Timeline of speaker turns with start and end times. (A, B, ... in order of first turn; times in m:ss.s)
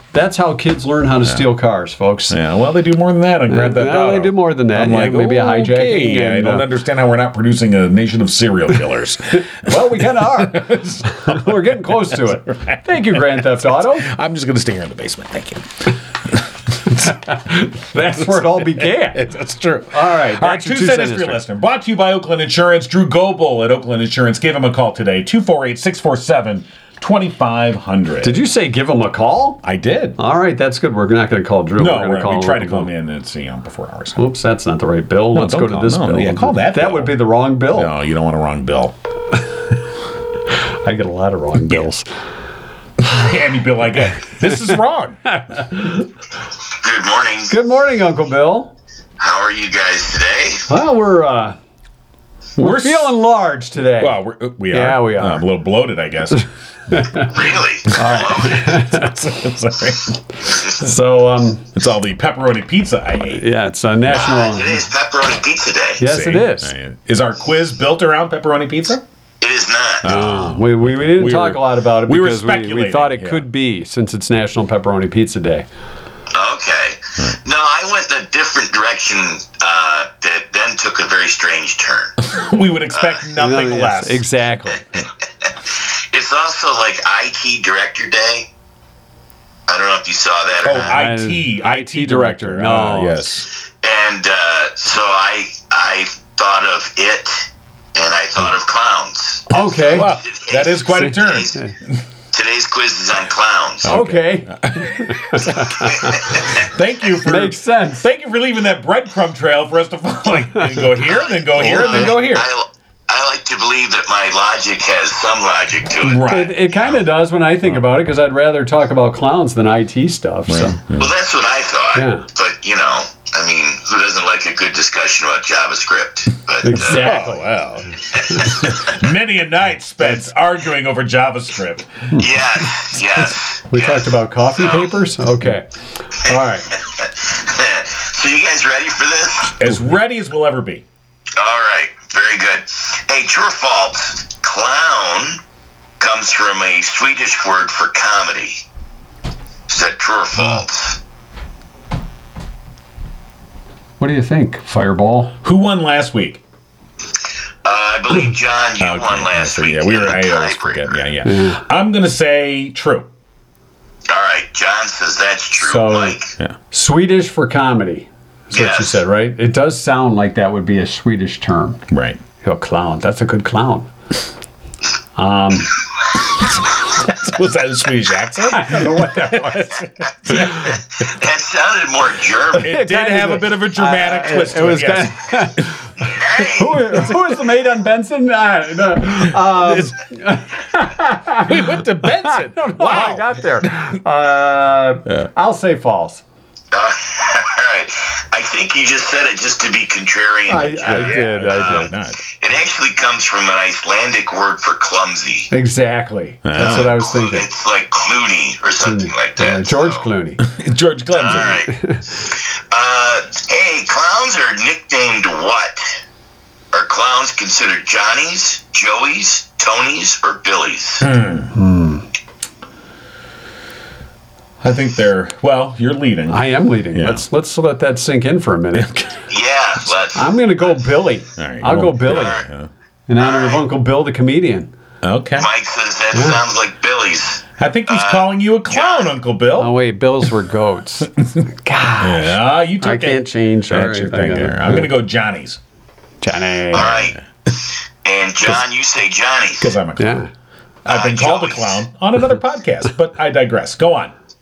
0:00.1-0:02.4 A
0:02.3-0:11.7 B
0:03.5-0:06.7 A
0:09.4-0:14.1 A
0:12.4-0:17.1 B
0:16.9-0:19.3 A
0:18.2-0:28.4 B
0:19.9-0:21.4 A
0:28.2-0:29.6 A
0:29.6-0:30.2 B
0:30.2-0:32.9 A
0:31.8-0:34.2 B
0:34.2-0:37.9 A
0:35.3-0:39.0 B
0:40.5-0:42.1 A
0:43.0-0:45.2 B
0:45.3-0:46.1 A
0:46.8-0:47.6 C
0:47.5-0:48.7 A
0:49.2-0:50.7 C
0:50.7-0:51.6 A
0:52.6-0:54.2 A
0:52.6-0:53.2 B
0:54.0-0:56.5 B
0:54.7-0:55.5 A
0:56.9-0:57.3 A
0:57.2-0:58.8 C
0:57.9-0:59.1 A
0:58.6-1:00.7 B
1:00.8-1:01.7 A
1:01.7-1:03.5 B
1:03.3-1:04.8 A
1:04.1-1:06.1 C
1:06.0-1:06.7 A
1:06.0-1:09.0 B
1:09.4-1:10.1 C
1:10.0-1:13.4 B
1:10.0-1:15.7 A
1:16.3-1:22.2 C
1:22.2-1:24.2 B
1:22.9-1:23.2 C
1:23.4-1:25.0 A
1:25.4-1:28.5 C
1:29.7-1:31.0 C
1:30.6-1:33.5 B
1:30.7-1:33.2 A
1:33.8-1:41.6 C
1:39.5-1:40.2 A
1:39.9-1:41.9 B
1:42.3-1:43.9 C
1:43.8-1:52.5 B
1:43.8-1:46.3 A
1:45.5-1:46.7 C
1:47.2-1:48.0 A
1:51.0-1:56.3 C
1:51.6-1:52.2 A
1:56.0-1:57.0 B
1:56.3-2:00.8 A
2:00.5-2:01.1 B
2:01.0-2:07.0 C
2:02.0-2:02.3 A
2:06.6-2:07.6 A
2:06.7-2:12.2 B
2:08.1-2:08.6 C
2:08.3-2:08.6 A
2:12.2-2:14.9 C
2:13.7-2:16.8 A
2:16.3-2:19.6 C
2:19.6-2:20.8 B
2:21.4-2:25.4 C
2:26.0-2:28.6 C
2:29.7-2:31.0 C
2:34.0-2:35.4 A
2:35.4-2:36.4 B
2:37.6-2:41.1 C
2:38.8-2:43.1 B
2:41.2-2:41.6 A
2:44.1-2:46.3 C
2:45.6-2:46.2 A
2:46.7-2:51.8 A
2:48.5-2:49.0 C
2:51.9-2:52.2 B
2:52.4-2:53.9 A
2:55.2-2:55.8 A
2:56.4-3:00.8 B
2:58.5-2:59.8 A
3:00.4-3:02.8 C
3:02.5-3:05.7 B
3:02.6-3:16.2 A
3:06.0-3:07.0 C
3:09.2-3:10.0 B
3:11.4-3:13.6 B
3:16.7-3:25.5 C
3:20.5-3:21.9 A
3:20.6-3:22.2 B
3:25.5-3:27.5 A
3:26.4-3:26.9 B
3:26.6-3:30.1 C
3:28.8-3:30.5 A
3:30.4-3:31.6 B
3:31.1-3:36.0 C
3:31.7-3:32.0 A
3:36.7-3:41.1 C
3:41.0-3:41.6 B
3:41.5-3:42.1 A
3:44.6-3:47.2 B
3:46.3-3:49.0 A
3:48.7-3:49.2 B
3:49.3-3:50.4 C
3:50.2-3:52.4 A
3:51.4-3:52.7 B
3:52.0-3:52.4 C
3:53.1-3:54.7 A
3:53.2-3:53.6 C
3:55.0-3:55.5 B
3:55.4-3:59.1 C
3:56.1-3:56.4 A
3:57.6-3:59.8 B
3:59.6-4:04.9 A
4:02.0-4:05.6 B
4:06.2-4:07.0 A
4:06.7-4:09.7 C
4:09.6-4:10.2 B
4:10.0-4:10.3 A
4:10.8-4:14.1 B
4:10.9-4:11.8 C